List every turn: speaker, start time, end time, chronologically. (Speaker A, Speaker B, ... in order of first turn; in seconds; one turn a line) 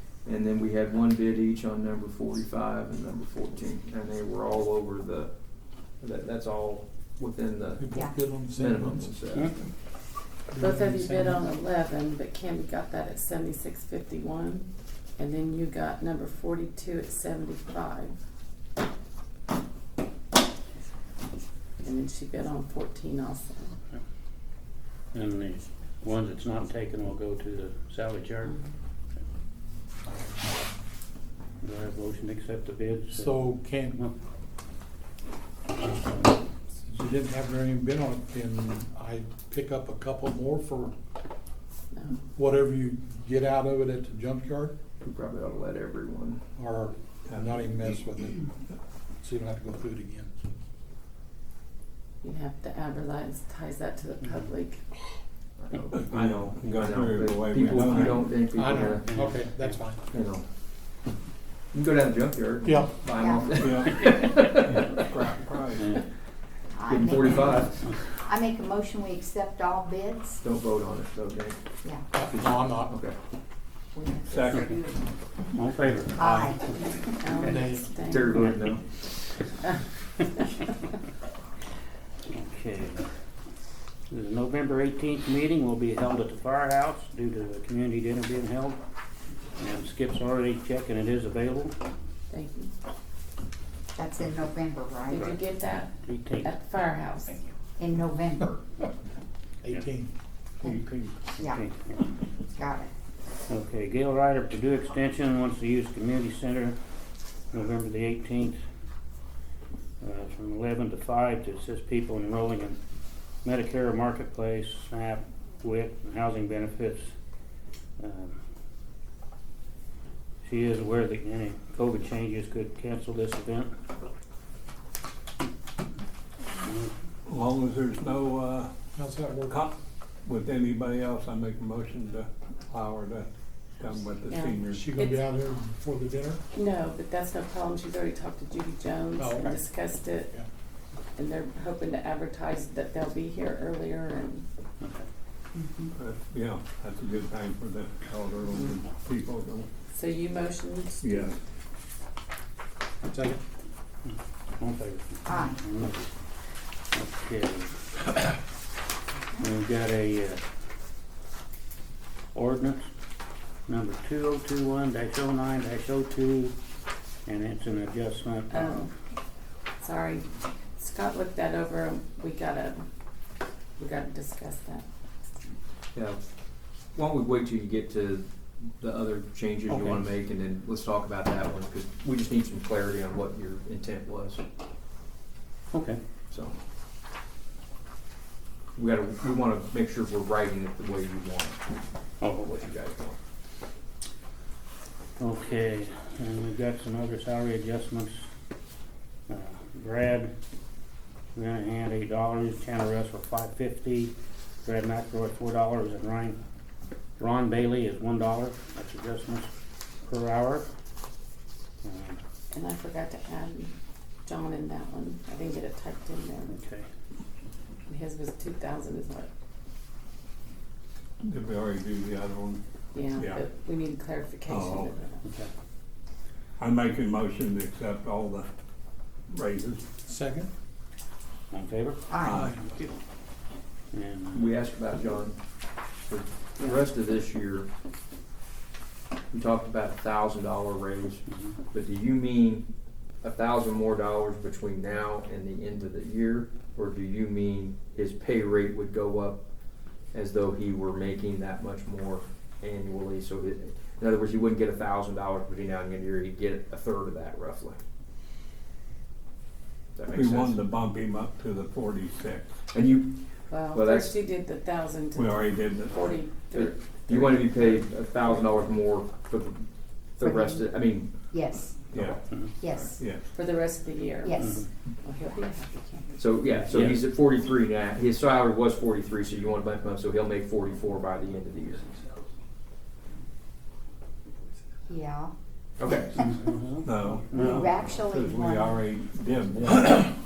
Speaker A: 0.2-5.3
Speaker A: 6.0-7.8
Speaker B: 7.8-9.2
Speaker A: 8.5-9.6
Speaker B: 10.5-11.4
Speaker C: 10.6-18.2
Speaker C: 21.8-23.8
Speaker D: 25.1-28.6
Speaker D: 31.6-33.4
Speaker B: 33.1-34.0
Speaker B: 36.9-40.9
Speaker C: 41.9-42.2
Speaker B: 42.4-44.8
Speaker A: 45.0-46.4
Speaker B: 46.6-48.5
Speaker E: 47.3-48.0
Speaker B: 49.2-50.3
Speaker C: 52.2-54.8
Speaker A: 55.6-59.1
Speaker E: 56.0-58.2
Speaker B: 58.5-60.1
Speaker D: 59.0-59.8
Speaker A: 60.1-60.5
Speaker A: 61.7-65.0
Speaker B: 62.6-63.0
Speaker F: 63.2-63.5
Speaker E: 63.5-63.9
Speaker E: 64.6-65.8
Speaker D: 65.8-66.0
Speaker F: 66.7-70.4
Speaker A: 66.9-67.9
Speaker A: 70.4-71.6
Speaker F: 71.8-72.1
Speaker B: 72.1-73.0
Speaker A: 72.3-73.2
Speaker F: 74.0-75.0
Speaker E: 74.3-74.7
Speaker D: 75.5-76.3
Speaker F: 76.2-77.3
Speaker C: 76.7-78.5
Speaker B: 77.4-77.8
Speaker A: 78.0-79.0
Speaker D: 82.3-83.1
Speaker D: 84.1-88.8
Speaker D: 89.6-91.8
Speaker C: 92.3-92.7
Speaker F: 94.0-95.3
Speaker D: 95.1-95.4
Speaker C: 95.1-97.4
Speaker D: 96.0-96.5
Speaker F: 97.8-98.6
Speaker B: 99.6-100.1
Speaker E: 100.6-101.2
Speaker D: 101.4-102.1
Speaker F: 102.5-102.9
Speaker D: 103.5-106.8
Speaker D: 107.5-108.6
Speaker D: 110.0-112.8
Speaker D: 113.4-117.1
Speaker D: 118.0-118.4
Speaker D: 120.4-123.7
Speaker D: 126.6-126.9
Speaker E: 127.3-128.7
Speaker B: 128.9-129.6
Speaker E: 129.5-129.8
Speaker E: 130.3-133.3
Speaker E: 133.8-134.8
Speaker C: 134.3-135.3
Speaker B: 134.7-136.4
Speaker C: 136.5-140.3
Speaker B: 139.2-139.7
Speaker C: 141.2-144.5
Speaker D: 144.8-145.1
Speaker F: 145.6-145.9
Speaker E: 146.0-149.7
Speaker C: 148.5-148.8
Speaker C: 149.9-151.3
Speaker E: 151.0-151.4
Speaker B: 153.0-153.4
Speaker D: 154.6-156.1
Speaker F: 155.3-155.6
Speaker D: 156.9-157.7
Speaker D: 159.4-160.4
Speaker D: 162.3-162.9
Speaker D: 163.7-166.6
Speaker D: 167.3-168.9
Speaker C: 168.5-168.9
Speaker C: 169.8-172.8
Speaker C: 173.8-174.8
Speaker A: 175.9-176.2
Speaker A: 176.9-178.3
Speaker A: 178.8-184.4
Speaker D: 179.7-180.0
Speaker D: 185.7-186.0
Speaker A: 186.3-186.6
Speaker A: 188.8-191.6
Speaker D: 192.2-192.6
Speaker A: 192.4-193.2
Speaker D: 195.2-198.3
Speaker D: 199.3-200.3
Speaker D: 201.3-206.4
Speaker D: 207.2-209.5
Speaker D: 210.1-210.7
Speaker D: 211.8-212.2
Speaker C: 212.5-213.8
Speaker C: 214.3-216.5
Speaker D: 216.5-216.8
Speaker C: 217.9-219.3
Speaker E: 221.2-222.6
Speaker C: 222.9-225.2
Speaker E: 223.1-223.4
Speaker E: 224.5-224.9
Speaker D: 225.2-225.5
Speaker E: 226.6-228.5
Speaker E: 229.3-229.8
Speaker B: 230.0-230.5
Speaker D: 231.5-232.1
Speaker F: 232.1-232.5
Speaker E: 232.2-232.5
Speaker B: 232.2-232.7
Speaker D: 233.9-234.5
Speaker A: 234.3-235.4
Speaker A: 236.1-237.7
Speaker A: 239.3-242.7
Speaker A: 243.2-249.4
Speaker A: 250.1-257.8
Speaker A: 260.0-260.6
Speaker E: 260.1-262.5
Speaker A: 262.7-264.2
Speaker C: 263.5-267.6
Speaker E: 265.1-266.2
Speaker A: 266.5-271.1
Speaker F: 270.2-271.8
Speaker A: 271.9-272.2
Speaker E: 271.9-272.2
Speaker F: 272.6-273.0
Speaker E: 272.9-273.2
Speaker C: 273.3-275.7
Speaker F: 274.2-274.6
Speaker D: 274.4-274.7
Speaker F: 275.2-276.1
Speaker A: 276.2-282.0
Speaker D: 276.6-277.0
Speaker F: 284.9-285.3
Speaker A: 285.8-286.1
Speaker D: 286.2-287.6
Speaker E: 286.8-290.1
Speaker F: 287.3-288.8